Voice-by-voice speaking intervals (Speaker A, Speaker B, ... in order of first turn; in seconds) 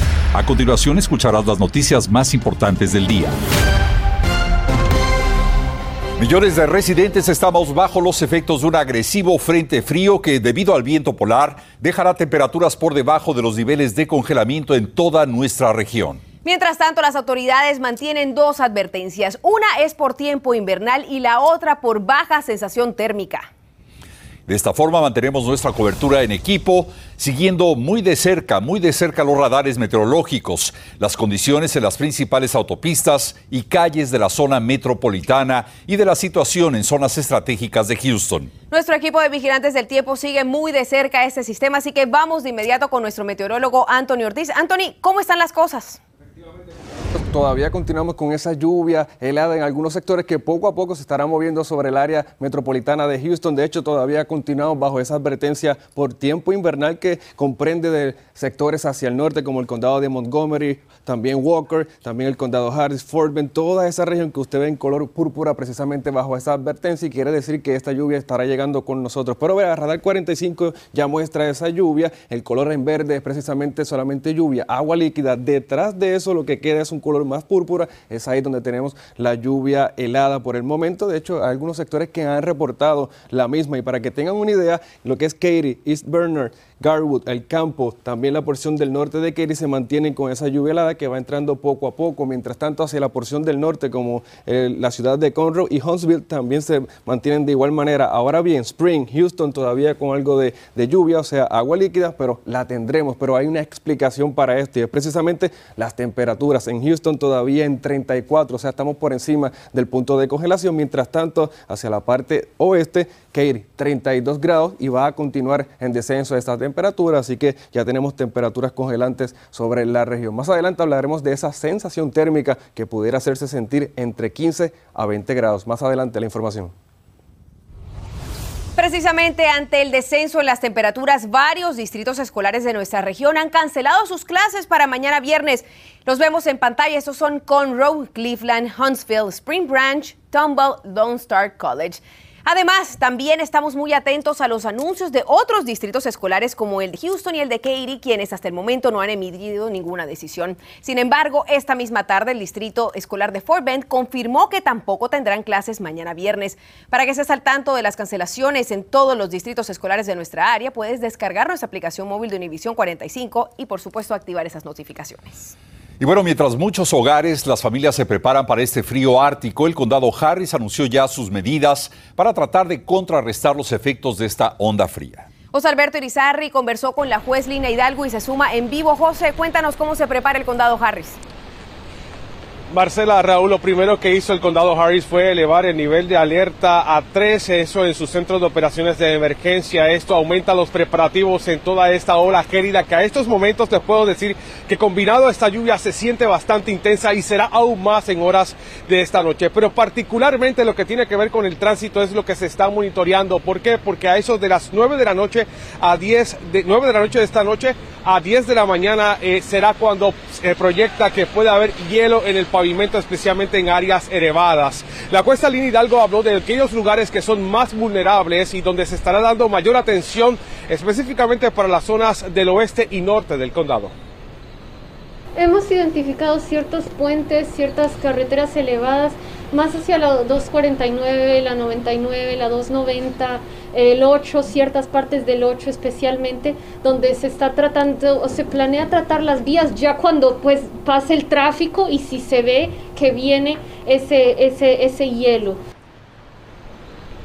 Speaker A: 0.3-3.4, 6.2-16.2, 24.5-38.5, 166.0-175.3
Speaker B: 16.4-23.5, 38.7-46.0, 128.8-165.5, 175.5-181.2
Speaker C: 47.1-126.7
Speaker D: 182.7-223.9
Speaker E: 225.3-245.6